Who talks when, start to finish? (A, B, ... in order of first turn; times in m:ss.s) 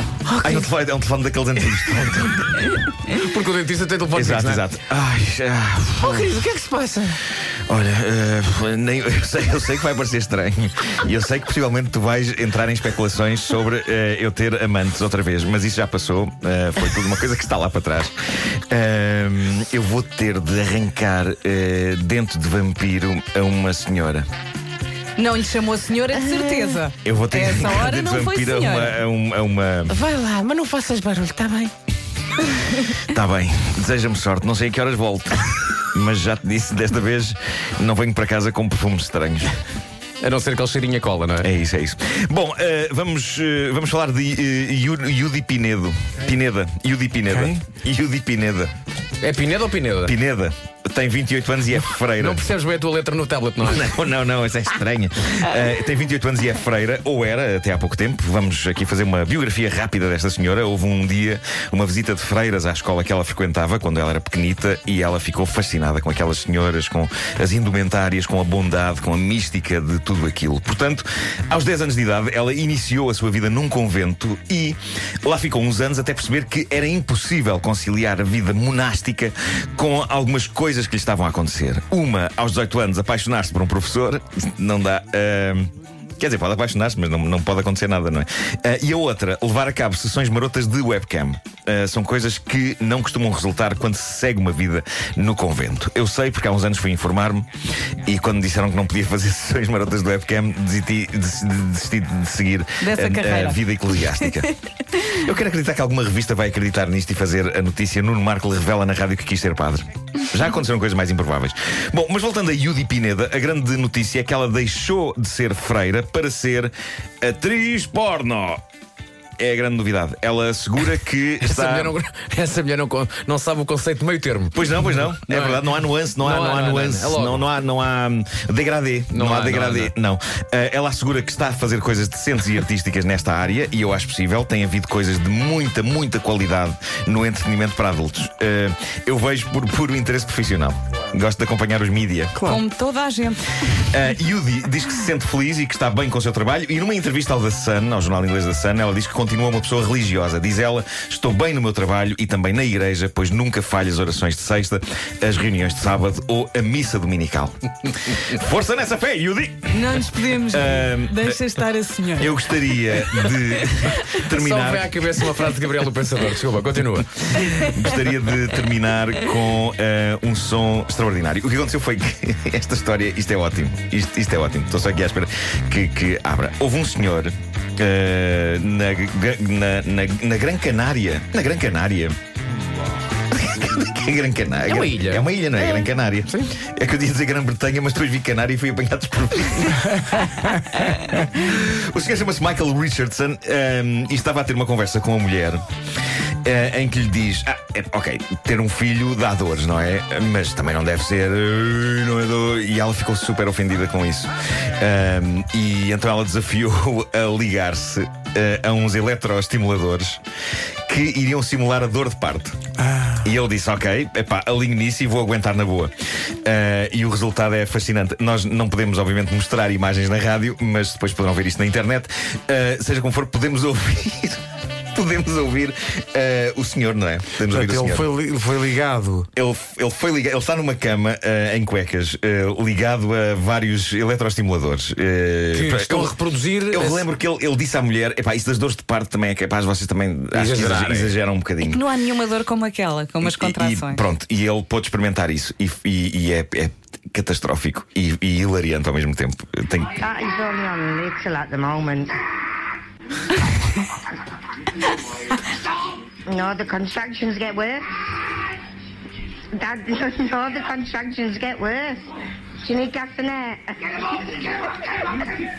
0:00.2-0:00.7 A
0:00.4-0:02.8 B
0:01.6-0:02.0 A
0:02.8-0:04.7 A
0:04.1-0:06.4 B
0:06.0-0:07.2 A
0:07.7-0:24.2 B
0:25.2-0:29.0 C
0:26.2-0:26.8 A
0:27.0-0:30.0 B
0:29.9-0:31.7 A
0:33.0-0:39.6 B
0:40.2-0:41.5 A
0:41.4-0:48.7 B
0:49.2-0:50.1 A
0:50.0-0:52.5 B
0:52.2-0:53.9 A
0:53.6-1:58.6 B
1:42.8-1:44.4 C
1:59.4-2:02.0 B
2:01.4-2:07.5 A
2:04.5-2:22.4 B
2:09.1-2:09.9 A
2:22.3-2:22.6 D
2:22.4-2:23.6 C
2:23.9-2:41.4 B
2:39.7-2:44.1 C
2:42.1-2:45.1 B
2:44.2-2:47.4 A
2:47.3-3:02.2 B
2:47.4-2:47.9 C
3:03.3-3:15.6 B
3:04.6-3:06.5 A
3:16.4-3:30.2 B
3:30.9-3:32.6 B
3:32.8-3:33.2 D
3:33.2-3:44.4 B
3:44.9-3:48.1 B
3:47.4-3:49.3 D
3:49.4-3:56.1 B
3:55.5-3:57.0 A
3:56.7-4:01.9 B
4:00.3-4:01.2 A
4:01.6-4:04.0 C
4:03.2-4:10.0 B
4:10.0-4:12.2 E
4:16.2-4:17.8 E
4:19.5-4:22.1 E
4:22.6-4:25.2 E